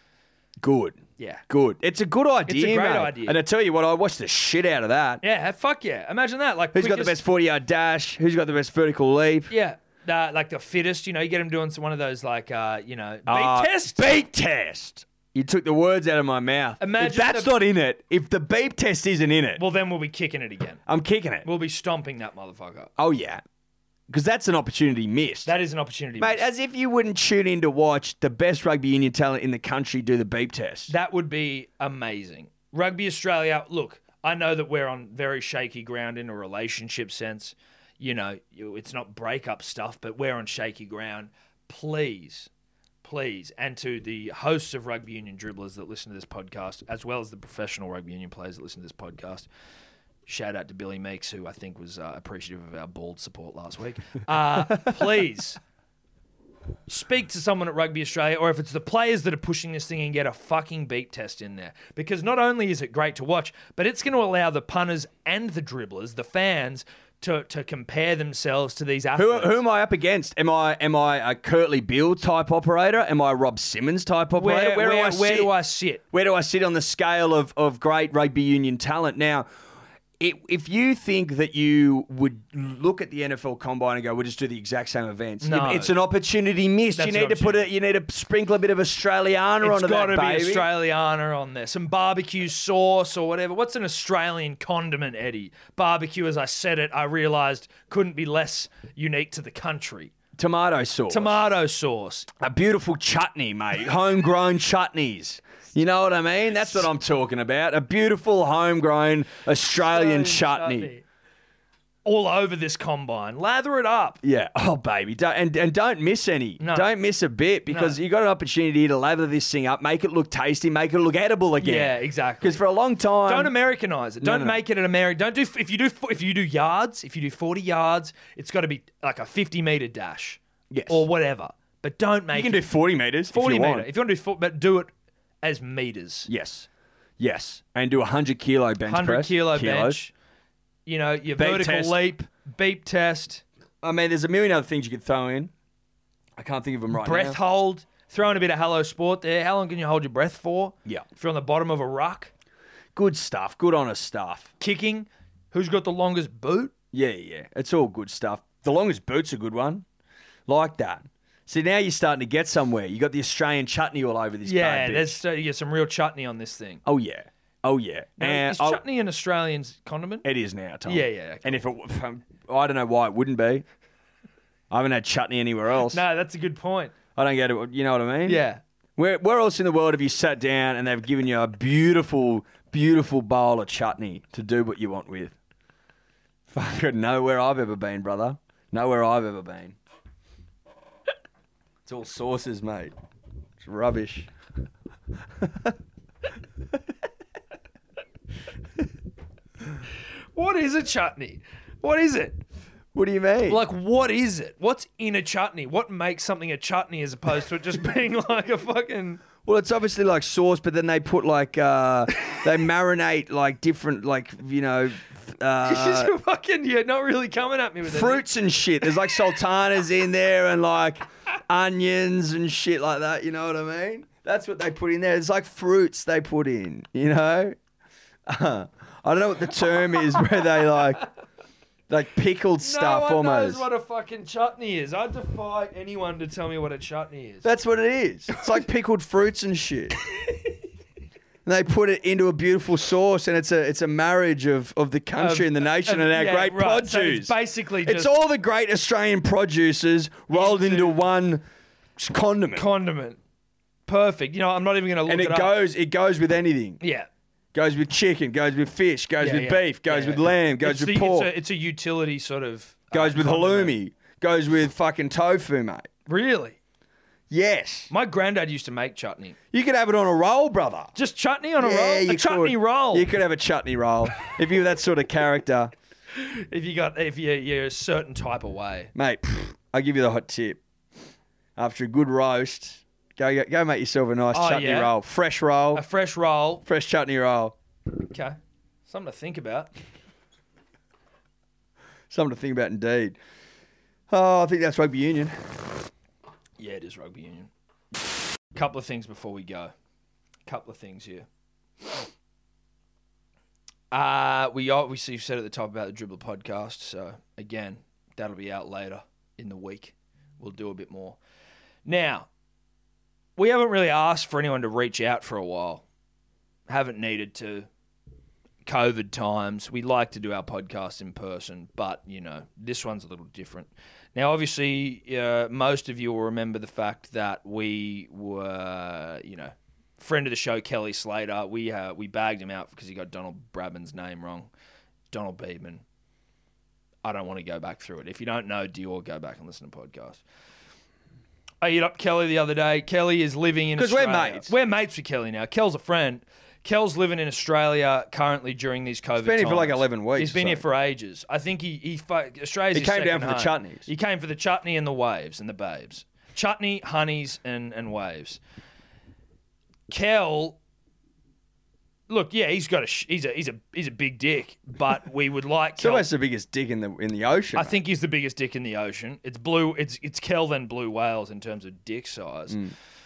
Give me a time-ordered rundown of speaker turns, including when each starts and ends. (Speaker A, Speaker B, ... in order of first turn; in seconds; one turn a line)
Speaker A: 0.6-5.2
Speaker B: 1.2-1.4
Speaker B: 2.5-3.4
Speaker B: 5.2-7.2
Speaker A: 6.7-9.5
Speaker B: 9.5-14.1
Speaker A: 13.3-19.6
Speaker B: 16.8-17.5
Speaker B: 19.6-20.8
Speaker A: 20.9-21.4
Speaker B: 21.4-22.9
Speaker A: 23.0-23.4
Speaker A: 24.1-25.5
Speaker B: 25.4-26.5
Speaker A: 26.2-30.9
Speaker B: 30.9-42.5
Speaker B: 43.0-49.5
Speaker B: 50.3-55.6
Speaker B: 56.9-69.6
Speaker A: 69.1-75.5
Speaker B: 74.4-76.0
Speaker A: 76.1-79.5
Speaker A: 80.2-90.7
Speaker B: 85.4-85.9
Speaker B: 87.0-87.7
Speaker B: 89.6-100.1
Speaker A: 100.4-101.4
Speaker B: 101.1-102.4
Speaker A: 102.4-110.9
Speaker B: 109.8-111.0
Speaker B: 112.0-114.2
Speaker A: 114.2-123.5
Speaker B: 116.6-116.9
Speaker B: 117.7-118.0
Speaker B: 121.6-122.6
Speaker B: 123.3-132.6
Speaker A: 124.2-124.6
Speaker A: 130.7-131.1
Speaker A: 132.3-133.9
Speaker B: 133.3-134.9
Speaker B: 135.4-136.3
Speaker A: 136.3-136.7
Speaker A: 137.2-140.0
Speaker B: 138.9-140.1
Speaker B: 140.9-143.4
Speaker A: 141.4-142.0
Speaker A: 143.8-145.5
Speaker A: 146.4-147.4
Speaker B: 146.9-152.3
Speaker A: 152.9-154.5
Speaker B: 154.6-156.7
Speaker A: 156.9-159.8
Speaker A: 160.5-165.2
Speaker B: 164.4-166.8
Speaker A: 166.8-168.8
Speaker B: 168.2-170.2
Speaker A: 170.2-173.6
Speaker B: 170.9-171.6
Speaker A: 174.7-176.0
Speaker B: 175.9-176.9
Speaker A: 177.2-178.4
Speaker B: 178.2-178.6
Speaker A: 178.9-185.4
Speaker A: 186.5-189.8
Speaker A: 191.9-192.9
Speaker A: 193.6-194.3
Speaker A: 195.4-195.7
Speaker B: 200.3-202.4
Speaker A: 202.9-203.6
Speaker B: 203.4-209.2
Speaker A: 209.4-216.1
Speaker B: 215.6-218.2
Speaker A: 217.9-227.6
Speaker B: 218.8-219.1
Speaker A: 228.3-231.0
Speaker A: 231.9-233.6
Speaker B: 232.6-237.5
Speaker A: 237.4-239.9
Speaker A: 241.4-251.4
Speaker B: 245.2-248.1
Speaker B: 250.3-251.0
Speaker A: 252.0-252.7
Speaker B: 252.5-253.2
Speaker B: 253.9-255.5
Speaker A: 255.1-256.8
Speaker B: 256.8-257.1
Speaker A: 257.5-261.3
Speaker B: 259.2-263.8
Speaker A: 262.9-265.9
Speaker B: 266.1-266.6
Speaker A: 267.3-267.9
Speaker B: 267.9-269.4
Speaker A: 269.5-270.9
Speaker B: 270.9-273.1
Speaker A: 271.6-275.7
Speaker B: 276.1-278.9
Speaker A: 278.9-280.6
Speaker A: 281.6-285.8
Speaker B: 284.3-284.9
Speaker B: 285.7-286.6
Speaker A: 286.6-287.6
Speaker B: 288.0-289.7
Speaker A: 292.1-293.2
Speaker A: 294.1-295.4
Speaker B: 296.6-297.5
Speaker B: 298.5-299.7
Speaker B: 300.5-301.3
Speaker B: 303.9-311.2
Speaker B: 311.9-312.3
Speaker B: 313.4-315.9
Speaker B: 316.7-317.7
Speaker B: 318.6-334.5
Speaker B: 335.1-335.8
Speaker B: 337.0-340.2
Speaker B: 341.6-358.4
Speaker A: 343.8-344.5
Speaker A: 349.2-350.6
Speaker A: 352.7-353.9
Speaker B: 359.9-360.6
Speaker B: 362.1-366.1
Speaker A: 365.8-367.8
Speaker B: 367.6-372.6